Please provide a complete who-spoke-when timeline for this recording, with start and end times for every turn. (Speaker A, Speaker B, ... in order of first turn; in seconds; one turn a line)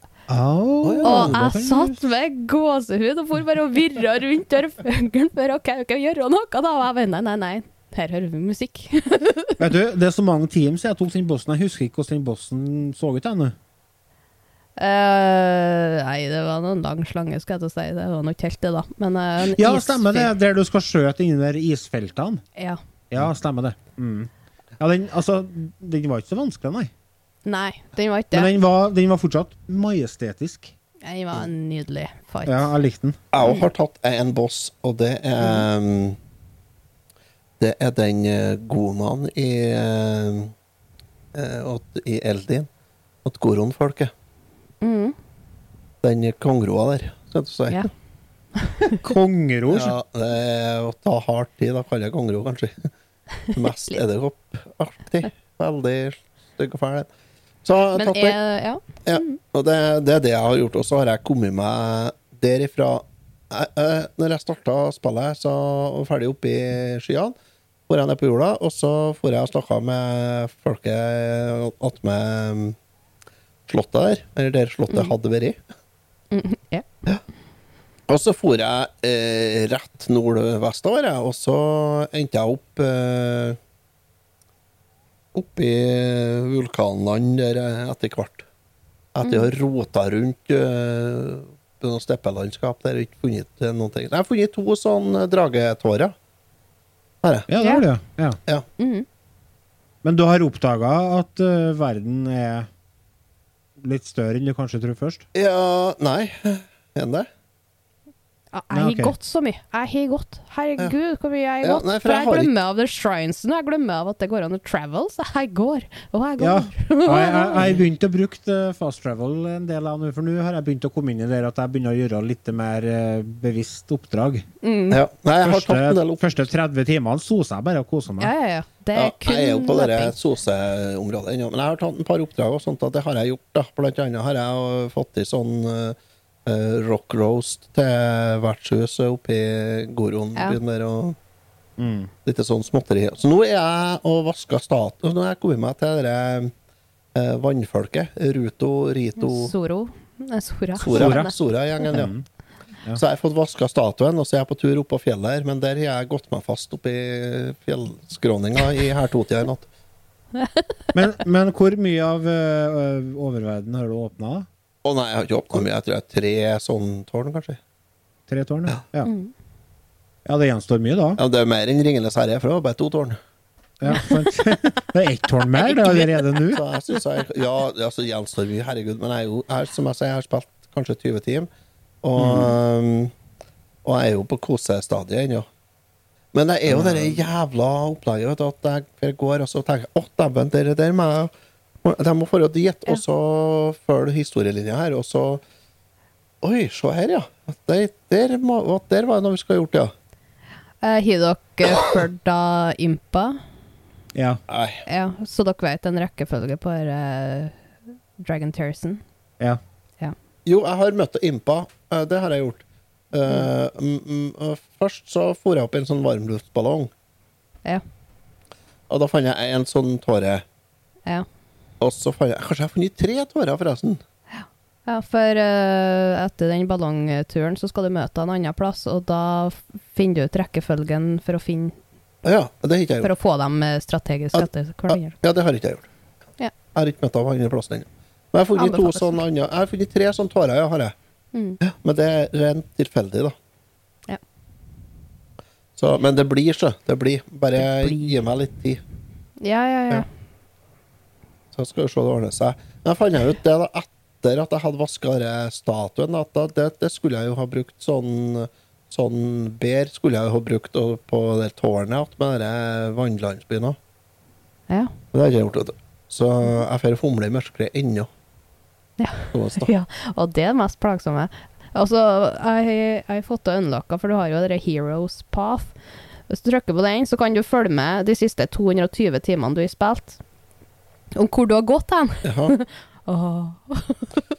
Speaker A: 0.3-2.0
Speaker B: 0.8-1.4
Speaker C: 1.0-9.6
Speaker A: 9.6-13.6
Speaker C: 14.8-20.3
Speaker A: 19.4-22.4
Speaker A: 23.1-26.9
Speaker C: 27.4-28.5
Speaker A: 28.3-30.7
Speaker C: 31.0-32.7
Speaker A: 32.5-33.2
Speaker B: 33.3-36.2
Speaker C: 33.4-33.7
Speaker C: 35.4-35.7
Speaker B: 37.6-40.5
Speaker B: 41.3-42.7
Speaker B: 43.2-44.1
Speaker C: 44.8-45.2
Speaker B: 46.0-47.9
Speaker C: 48.6-49.0
Speaker A: 48.9-50.0
Speaker B: 49.7-52.9
Speaker B: 53.5-57.1
Speaker B: 57.6-58.4
Speaker C: 58.0-59.4
Speaker B: 59.0-67.3
Speaker B: 67.9-72.8
Speaker B: 73.7-75.6
Speaker C: 76.3-76.9
Speaker B: 78.1-83.6
Speaker B: 85.3-88.5
Speaker B: 89.2-96.2
Speaker C: 89.2-89.5
Speaker B: 97.2-97.5
Speaker A: 97.5-98.4
Speaker C: 97.6-97.8
Speaker C: 98.8-99.1
Speaker A: 100.0-102.7
Speaker A: 103.8-105.2
Speaker B: 105.3-107.3
Speaker C: 108.5-117.7
Speaker A: 108.7-109.2
Speaker B: 111.6-112.5
Speaker A: 116.4-124.5
Speaker C: 124.6-125.0
Speaker B: 124.9-126.4
Speaker A: 125.4-128.3
Speaker C: 128.2-130.2
Speaker B: 128.9-141.2
Speaker A: 141.8-142.1
Speaker B: 142.2-146.5
Speaker B: 147.2-149.5
Speaker C: 149.2-151.3
Speaker B: 150.8-152.1
Speaker A: 150.9-151.3
Speaker A: 151.9-152.3
Speaker B: 153.0-159.7
Speaker C: 160.3-160.7
Speaker A: 160.9-164.5
Speaker B: 164.8-167.6
Speaker A: 168.3-169.1
Speaker C: 169.1-169.3
Speaker A: 170.3-171.2
Speaker B: 171.2-173.2
Speaker A: 173.8-176.6
Speaker C: 173.9-174.2
Speaker B: 175.6-181.5
Speaker B: 182.0-183.1
Speaker A: 182.2-182.5
Speaker B: 183.8-185.5
Speaker B: 186.3-191.3
Speaker A: 186.7-187.2
Speaker B: 191.8-195.4
Speaker B: 196.4-199.9
Speaker C: 200.8-203.4
Speaker A: 204.2-204.4
Speaker B: 204.5-204.8
Speaker C: 204.9-207.6
Speaker C: 208.2-209.0
Speaker B: 210.5-216.9
Speaker B: 218.9-220.4
Speaker B: 221.8-224.0
Speaker C: 224.3-231.7
Speaker B: 232.2-233.1
Speaker C: 233.0-235.2
Speaker B: 234.3-235.9
Speaker B: 236.7-240.9
Speaker C: 238.6-239.2
Speaker C: 241.3-241.6
Speaker B: 241.6-243.3
Speaker B: 245.8-248.8
Speaker C: 247.6-248.2
Speaker C: 249.4-250.1
Speaker B: 251.5-263.8
Speaker B: 265.1-268.1
Speaker C: 269.0-275.7
Speaker B: 269.3-269.7
Speaker C: 276.3-280.2
Speaker C: 281.1-284.2
Speaker B: 282.2-282.6